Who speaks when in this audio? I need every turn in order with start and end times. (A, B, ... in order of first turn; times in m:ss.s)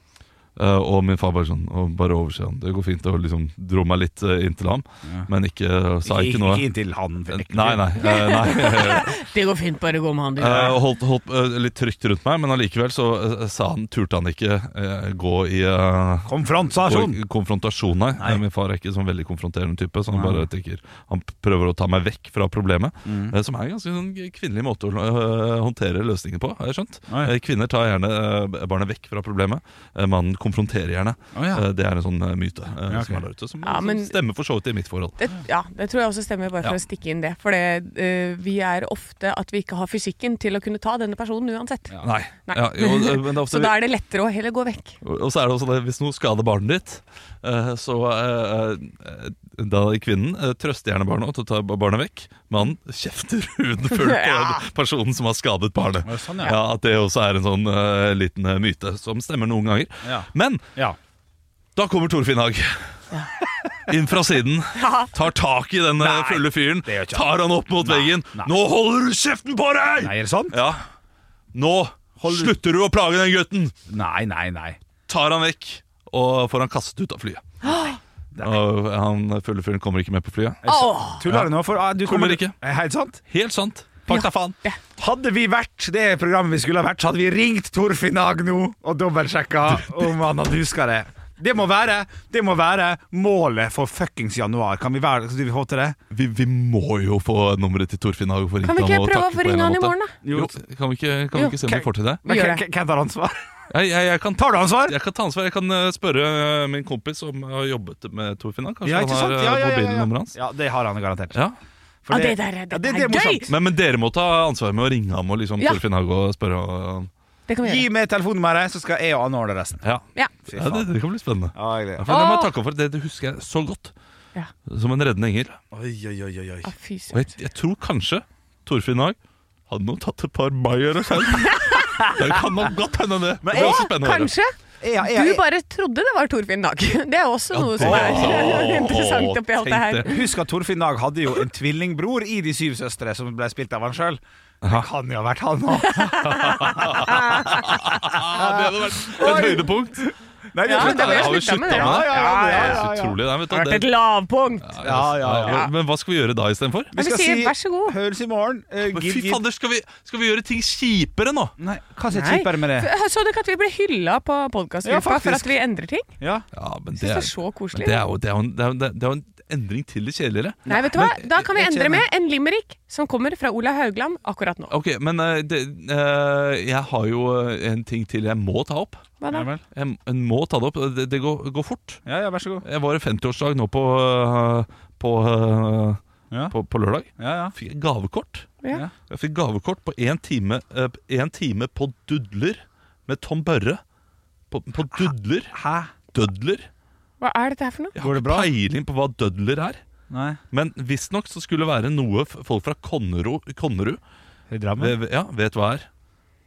0:00.6-0:06.6 A
0:06.0-0:07.9 B
0:07.3-0:09.1 A
0:08.0-0:10.8 C
0:10.4-0:16.3 A
0:16.2-0:17.2 B
0:16.8-0:35.2 A
0:18.2-0:18.4 B
0:20.1-0:20.5 B
0:23.0-0:23.4 B
0:31.3-0:31.6 B
0:32.9-0:33.2 B
0:33.6-0:34.1 C
0:35.2-0:45.0 C
0:42.0-0:43.8 A
0:45.0-1:00.6 A
0:53.8-0:54.6 C
0:56.0-0:56.6 B
1:00.0-1:01.0 B
1:01.8-1:03.0 A
1:03.9-1:10.8 A
1:04.7-1:05.1 C
1:06.0-1:08.5 B
1:10.0-1:10.6 B
1:11.5-1:13.7 A
1:12.2-1:12.5 B
1:13.9-1:14.8 B
1:15.1-1:17.7 A
1:17.6-1:18.0 C
1:18.4-1:20.7 A
1:20.6-1:23.2 B
1:20.7-1:21.2 C
1:21.3-1:21.5 A
1:22.0-1:22.6 A
1:23.3-1:24.6 A
1:24.1-1:24.8 C
1:25.0-1:36.0 B
1:36.1-1:42.2 A
1:38.6-1:40.1 C
1:40.2-1:40.5 B
1:41.6-1:43.5 B
1:42.2-1:42.6 C
1:43.7-1:50.4 A
1:44.4-1:45.0 B
1:48.8-1:51.4 B
1:52.0-1:53.5 B
1:52.1-1:53.5 C
1:53.5-1:57.1 A
1:57.5-1:57.8 C
1:57.6-1:59.8 B
1:59.8-2:03.9 A
2:00.4-2:00.9 B
2:01.5-2:02.1 B
2:02.1-2:02.5 C
2:04.7-2:05.6 A
2:05.7-2:06.7 B
2:06.6-2:07.3 C
2:07.1-2:09.2 A
2:09.7-2:14.3 A
2:11.4-2:12.0 C
2:13.4-2:13.9 B
2:13.5-2:20.2 C
2:14.8-2:15.4 B
2:17.5-2:20.1 A
2:17.8-2:18.8 B
2:20.0-2:33.2 B
2:24.6-2:24.9 A
2:25.9-2:27.7 C
2:26.6-2:30.0 A
2:29.2-2:29.6 C
2:30.6-2:32.8 C
2:30.7-2:33.9 A
2:33.5-2:34.8 C
2:34.6-2:36.9 A
2:34.8-2:35.7 B
2:36.9-2:39.4 B
2:36.9-2:38.0 C
2:38.9-2:41.5 A
2:41.6-2:42.9 B
2:42.1-2:46.1 C
2:44.8-2:45.5 B
2:46.2-2:46.4 B
2:46.5-2:51.2 A
2:47.0-2:48.0 C
2:50.7-2:52.0 B
2:50.7-2:54.7 C
2:54.7-2:59.1 A
2:59.2-2:59.5 C
2:59.3-2:59.6 B
2:59.7-3:02.0 A
3:02.0-3:02.6 B
3:02.6-3:06.0 A
3:06.5-3:08.5 A
3:07.2-3:07.5 B
3:09.1-3:13.8 A
3:14.5-3:15.5 A
3:14.8-3:15.9 B
3:16.1-3:16.7 A
3:17.2-3:17.9 C
3:17.9-3:19.8 A
3:18.0-3:18.5 B
3:20.1-3:20.4 B
3:20.5-3:24.0 A
3:24.5-3:24.9 B
3:24.8-3:25.9 A